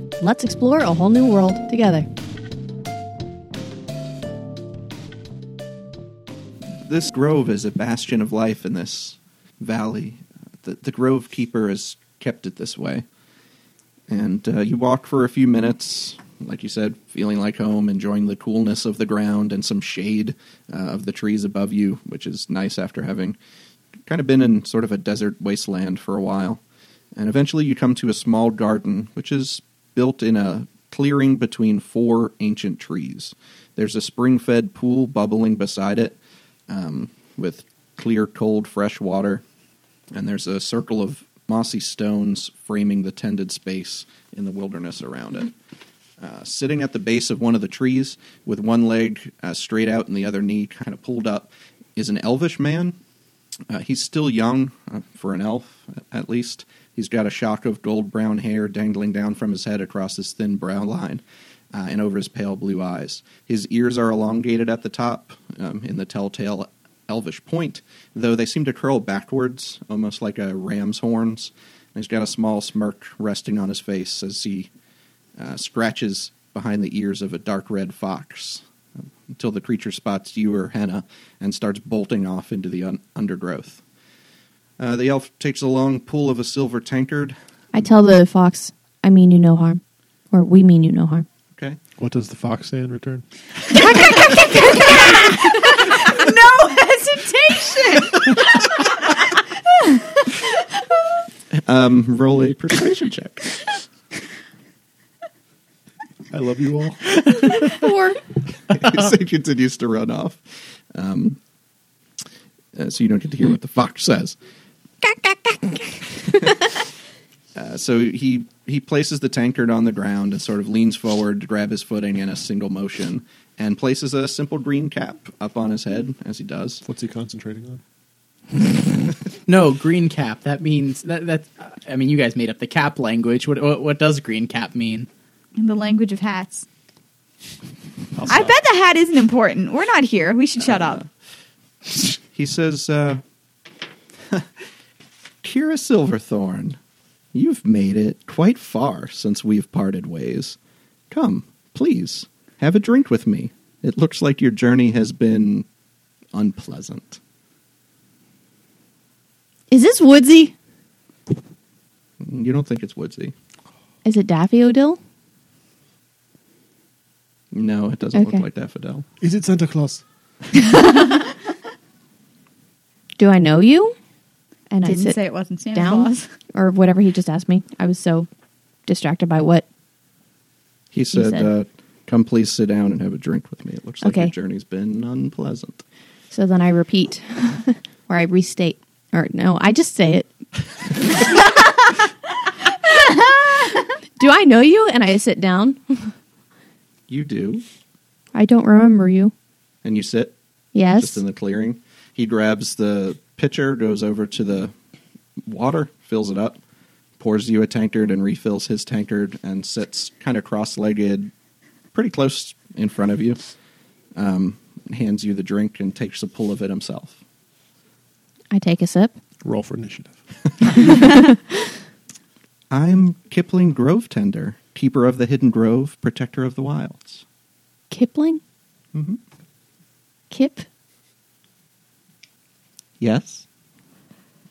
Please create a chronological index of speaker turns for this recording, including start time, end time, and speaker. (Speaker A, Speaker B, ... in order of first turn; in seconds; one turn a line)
Speaker A: 0.2-2.1
Speaker B: 6.8-13.0
Speaker B: 14.1-23.4
Speaker B: 24.1-26.6
Speaker B: 27.1-36.2
Speaker B: 36.7-39.4
Speaker B: 40.1-45.5
Speaker B: 46.2-53.0
Speaker B: 53.7-74.7
Speaker B: 75.4-83.8
Speaker B: 84.8-87.3
Speaker A: 87.7-89.8
Speaker A: 90.3-91.2
Speaker C: 92.0-93.2
Speaker D: 93.7-100.4
Speaker B: 101.5-103.6
Speaker C: 106.3-107.7
Speaker A: 107.5-108.2
Speaker B: 108.7-111.4
Speaker B: 112.7-114.4
Speaker B: 117.5-126.8
Speaker C: 126.8-127.8
Speaker E: 129.4-135.1
Speaker D: 135.6-136.7
Speaker C: 138.2-138.5
Speaker D: 138.3-141.0
Speaker B: 140.6-141.1
Speaker B: 141.9-143.2
Speaker B: 145.4-146.8
Speaker B: 147.3-150.6
Speaker B: 151.1-155.7
Speaker B: 156.3-157.2
Speaker A: 159.7-160.5
Speaker B: 162.2-163.3
Speaker A: 164.0-165.0
Speaker B: 167.5-169.1
Speaker A: 168.1-168.4
Speaker C: 169.2-170.0
Speaker A: 173.2-173.9
Speaker A: 174.7-175.2
Speaker D: 174.8-176.2
Speaker A: 175.7-178.3
Speaker A: 178.9-179.6
Speaker B: 180.9-185.8
Speaker A: 181.1-181.5
Speaker A: 184.0-184.3
Speaker A: 186.3-190.3
Speaker A: 191.1-191.4
Speaker A: 194.2-196.1
Speaker B: 197.1-197.6
Speaker A: 198.3-199.3
Speaker B: 199.8-200.3
Speaker A: 200.7-201.2
Speaker B: 201.0-204.7
Speaker B: 205.4-206.6
Speaker B: 207.2-211.3
Speaker B: 211.9-213.4
Speaker B: 214.2-217.2
Speaker A: 218.5-219.1
Speaker C: 219.4-220.2
Speaker C: 220.7-221.0
Speaker A: 220.8-221.4
Speaker B: 222.7-227.2
Speaker A: 227.9-228.4
Speaker B: 228.9-229.2
Speaker A: 230.3-230.7
Speaker B: 233.0-233.4